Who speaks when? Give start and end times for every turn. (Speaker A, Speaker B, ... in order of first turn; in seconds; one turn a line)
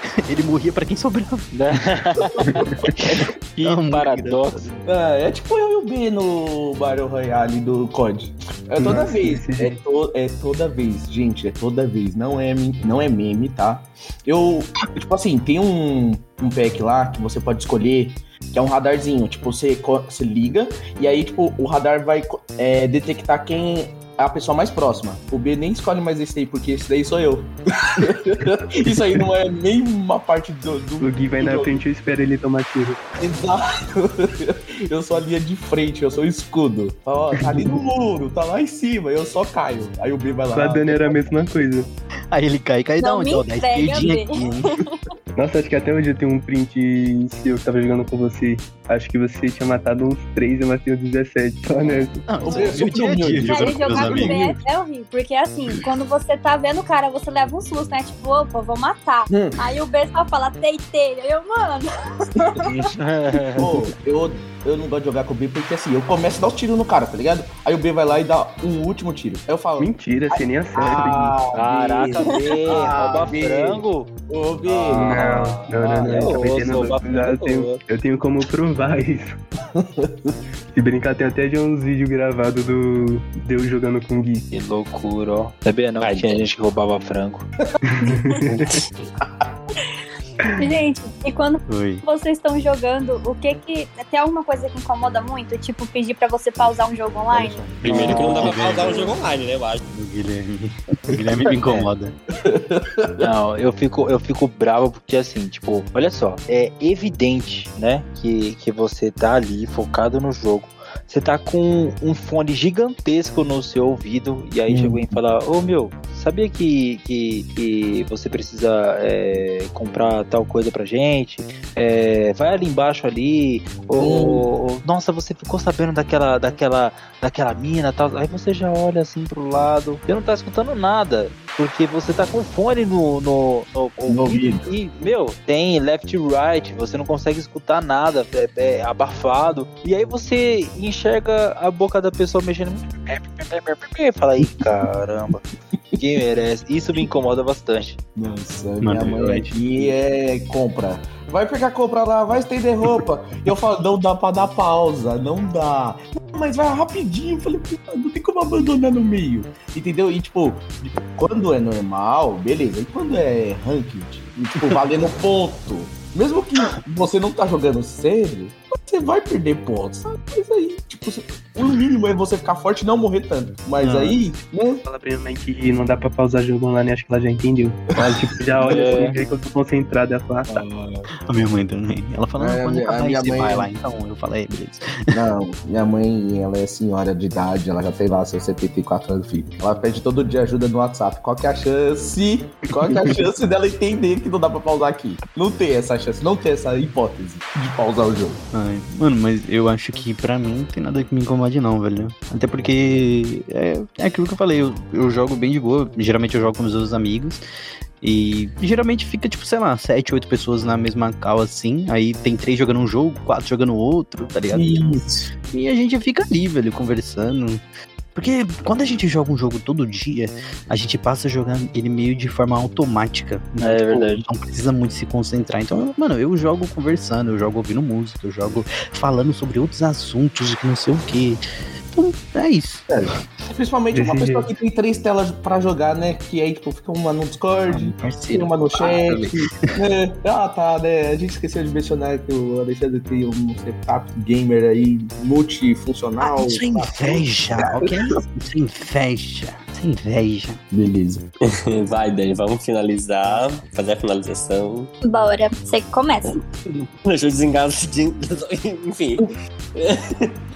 Speaker A: 0.2-1.5
Speaker B: 1.5-4.7
Speaker C: 2.4-3.2
Speaker A: 3.6-4.8
Speaker C: 4.8-31.8
Speaker D: 8.8-9.8
Speaker D: 31.0-33.0
Speaker C: 33.2-41.3
Speaker D: 37.4-37.8
Speaker D: 40.5-41.9
Speaker A: 42.3-44.8
Speaker E: 43.0-45.0
Speaker D: 45.3-52.3
Speaker A: 52.3-54.6
Speaker C: 52.4-54.4
Speaker E: 53.4-62.6
Speaker C: 59.3-59.6
Speaker B: 62.6-63.7
Speaker C: 63.6-76.4
Speaker D: 69.8-71.4
Speaker B: 71.5-74.1
Speaker B: 74.6-77.8
Speaker D: 75.0-79.4
Speaker C: 79.7-80.3
Speaker D: 80.7-84.5
Speaker B: 84.5-87.5
Speaker F: 86.0-86.4
Speaker D: 87.9-88.8
Speaker C: 89.2-89.5
Speaker E: 90.5-97.7
Speaker A: 91.7-92.0
Speaker C: 97.3-98.5
Speaker F: 97.8-99.8
Speaker A: 98.3-99.2
Speaker A: 99.9-102.1
Speaker B: 101.6-101.9
Speaker C: 102.4-103.2
Speaker B: 103.2-145.4
Speaker C: 114.7-115.2
Speaker C: 124.0-124.4
Speaker C: 134.1-134.7
Speaker B: 146.0-148.0
Speaker C: 148.2-174.8
Speaker A: 148.8-149.9
Speaker A: 173.8-174.2
Speaker D: 174.8-180.6
Speaker B: 178.6-179.2
Speaker C: 180.5-181.1
Speaker A: 181.3-185.2
Speaker C: 182.4-183.7
Speaker C: 185.1-198.4
Speaker A: 192.8-193.2
Speaker A: 198.5-207.4
Speaker A: 208.0-214.9
Speaker C: 214.5-215.3
Speaker A: 215.5-217.6
Speaker A: 218.1-232.9
Speaker B: 223.6-224.2
Speaker C: 232.9-247.9
Speaker D: 233.9-234.5
Speaker A: 237.7-239.7
Speaker A: 246.2-250.6
Speaker C: 250.7-251.2
Speaker F: 251.5-254.9
Speaker E: 255.0-256.4
Speaker F: 257.0-260.3